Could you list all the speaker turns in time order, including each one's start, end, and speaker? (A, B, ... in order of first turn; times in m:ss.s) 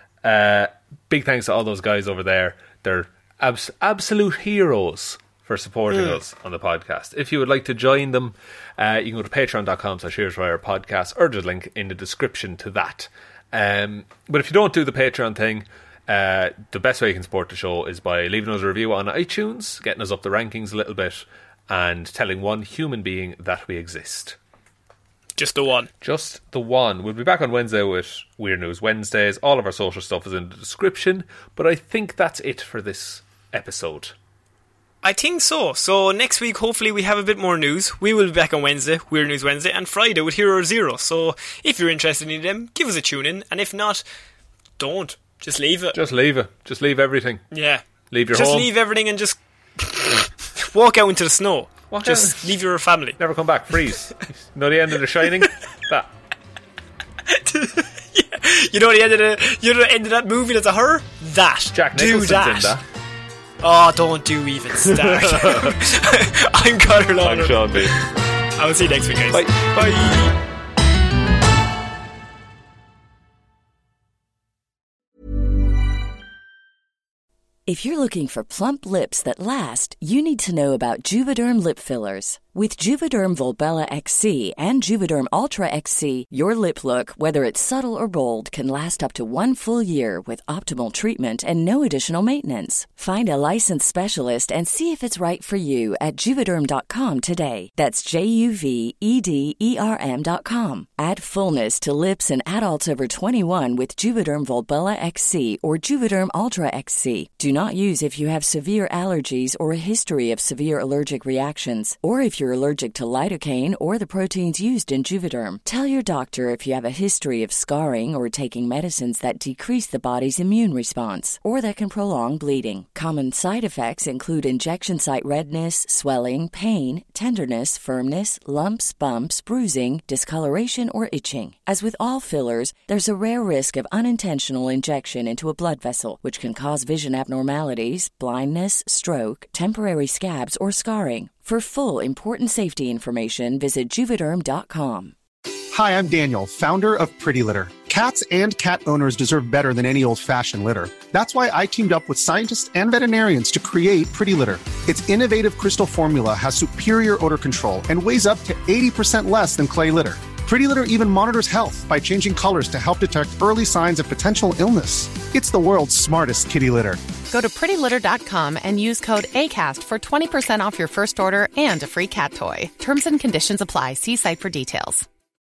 0:00.2-0:24.4 A
0:05.9-0:06.2 B
0:25.4-0:25.9 B
0:26.0-0:34.1 A
0:35.0-0:44.0 B
0:44.8-0:46.0 B
0:45.9-0:47.4 A
0:47.5-0:53.2 B
0:48.1-0:48.7 A
0:51.9-0:52.6 A
0:53.2-0:56.1 A
0:57.3-1:02.8 B
1:01.7-1:02.8 A
1:03.6-1:10.4 B
1:05.0-1:05.7 A
1:07.2-1:08.0 A
1:09.3-1:10.3 A
1:17.7-2:25.1 C
2:25.7-2:47.0 D
2:47.3-2:55.1 E